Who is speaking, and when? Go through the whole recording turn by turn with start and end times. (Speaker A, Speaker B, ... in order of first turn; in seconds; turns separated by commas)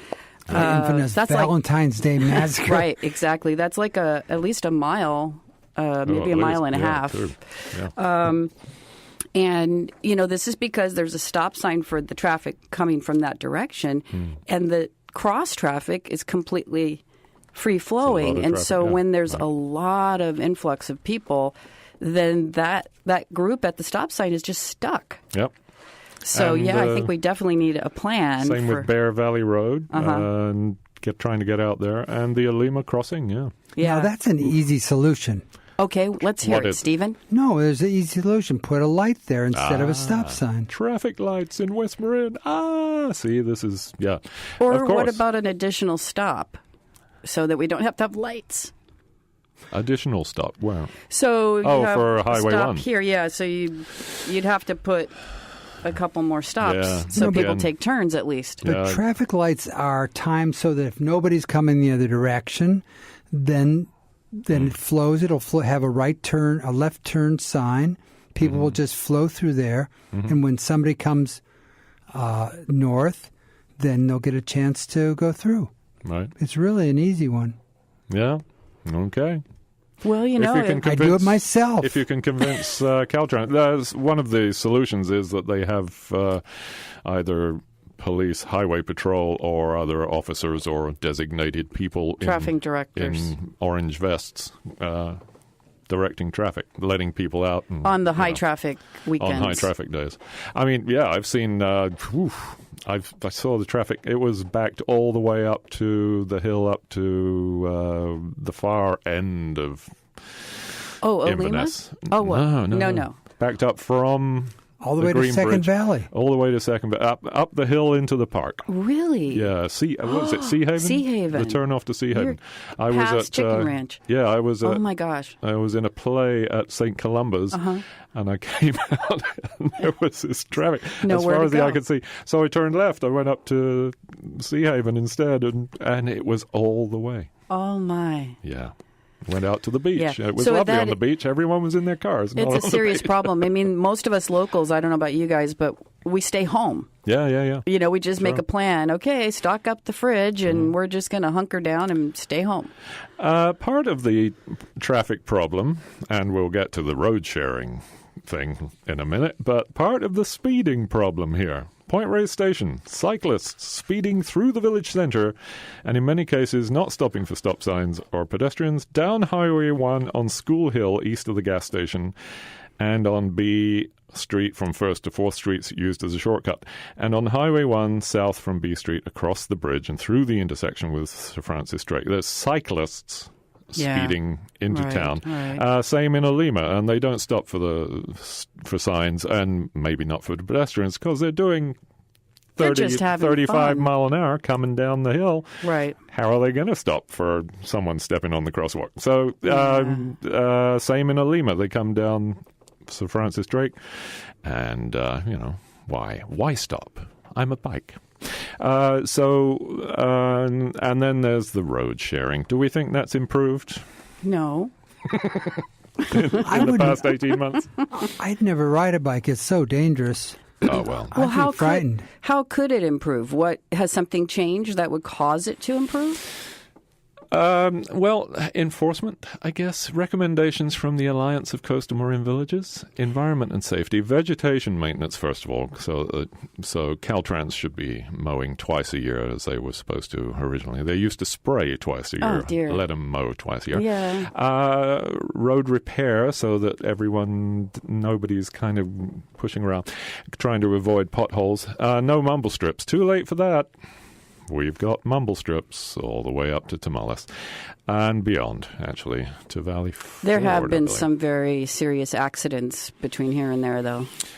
Speaker A: 0.5-3.0, Speaker B: 0.5-1.6, Speaker B: 2.3-8.5, Speaker C: 6.1-7.9, Speaker B: 9.3-17.0, Speaker B: 17.5-25.2, Speaker C: 18.0-19.4, Speaker B: 26.2-28.9, Speaker C: 26.3-27.1, Speaker C: 28.4-33.5, Speaker B: 29.9-30.3, Speaker B: 33.8-34.1, Speaker A: 33.8-35.4, Speaker B: 35.8-37.2, Speaker C: 36.4-36.9, Speaker A: 37.3-40.7, Speaker C: 39.5-45.2, Speaker B: 44.6-46.6, Speaker B: 47.2-48.7, Speaker C: 49.7-51.0, Speaker B: 51.1-55.1, Speaker C: 51.6-52.9, Speaker B: 55.8-58.6, Speaker C: 56.6-57.7, Speaker A: 57.1-57.6, Speaker C: 58.6-59.0, Speaker A: 58.6-71.4, Speaker C: 68.4-68.7, Speaker A: 72.1-75.7, Speaker C: 76.0-76.3, Speaker A: 76.4-77.6, Speaker C: 78.1-79.4, Speaker B: 80.0-80.9, Speaker C: 80.4-95.2, Speaker A: 80.8-82.0, Speaker B: 92.2-93.3, Speaker C: 95.9-98.4, Speaker B: 97.8-99.7, Speaker C: 99.2-110.4, Speaker B: 111.0-113.2, Speaker C: 111.2-118.7, Speaker A: 114.8-116.1, Speaker B: 118.7-119.5, Speaker C: 119.3-124.8, Speaker B: 120.0-124.0, Speaker B: 124.6-125.4, Speaker C: 125.4-137.3, Speaker B: 127.5-127.8, Speaker B: 131.0-131.8, Speaker B: 137.5-138.4, Speaker C: 138.4-138.7, Speaker C: 139.3-143.5, Speaker B: 139.9-141.0, Speaker B: 142.4-146.9, Speaker C: 147.1-147.7, Speaker B: 147.7-152.7, Speaker C: 148.2-148.4, Speaker C: 153.2-172.1, Speaker C: 172.8-191.8, Speaker B: 183.8-184.2, Speaker B: 184.7-185.6, Speaker C: 192.6-213.8, Speaker B: 192.6-193.9, Speaker B: 195.6-196.0, Speaker B: 199.5-200.0, Speaker B: 214.2-214.7, Speaker C: 215.1-217.8, Speaker A: 216.3-217.2, Speaker A: 218.1-220.6, Speaker C: 220.6-221.2, Speaker A: 221.1-222.1, Speaker B: 221.1-226.3, Speaker C: 227.3-253.7, Speaker B: 242.2-242.8, Speaker B: 243.7-244.3, Speaker C: 254.5-257.3, Speaker C: 257.9-261.1, Speaker B: 260.2-264.1